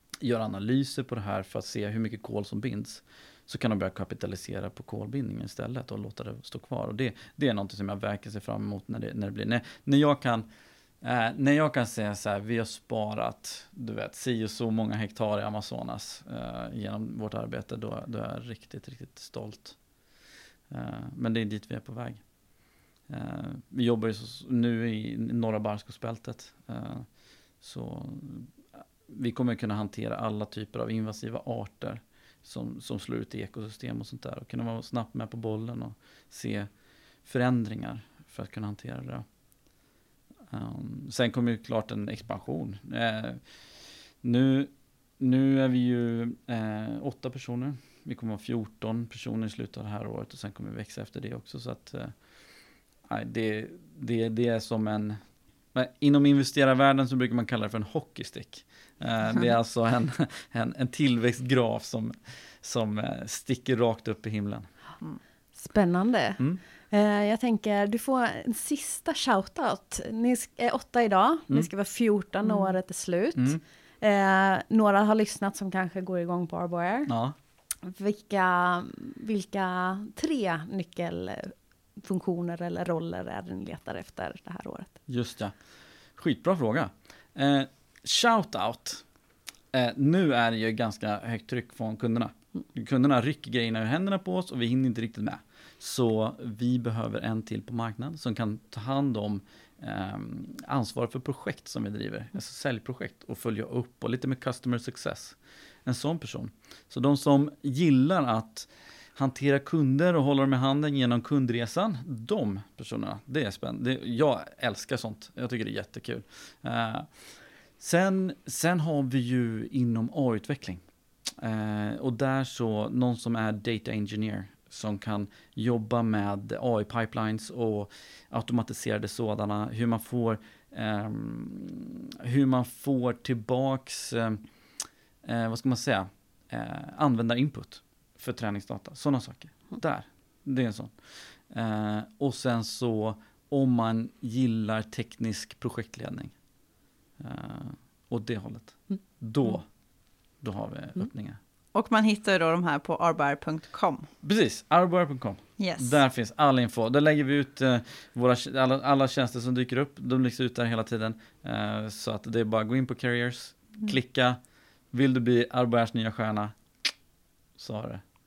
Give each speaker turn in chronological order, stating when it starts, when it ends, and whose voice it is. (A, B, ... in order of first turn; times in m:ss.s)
0:00.2-0:10.4 A
0:11.0-0:19.8 A
0:20.7-0:22.2 A
0:23.1-0:27.1 A
0:27.6-0:28.5 A
0:29.1-0:36.7 A
0:37.2-0:39.2 A
0:40.5-0:43.4 A
0:44.2-0:52.1 A
0:53.1-0:55.2 A
0:55.7-1:04.7 A
1:05.6-1:17.1 B
1:12.4-1:12.7 C
1:13.4-1:13.6 A
1:17.1-1:17.3 A
1:17.8-1:24.9 B
1:25.1-1:25.5 A
1:26.2-1:29.0 A
1:29.7-2:00.8 A
2:01.4-2:14.4 A
2:15.2-2:26.3 A
2:27.2-2:29.6 A
2:30.4-2:31.4 A
2:31.7-2:34.1 C
2:34.2-2:44.4 A
2:35.6-2:36.0 C
2:44.9-2:46.5 A
2:47.6-2:48.0 A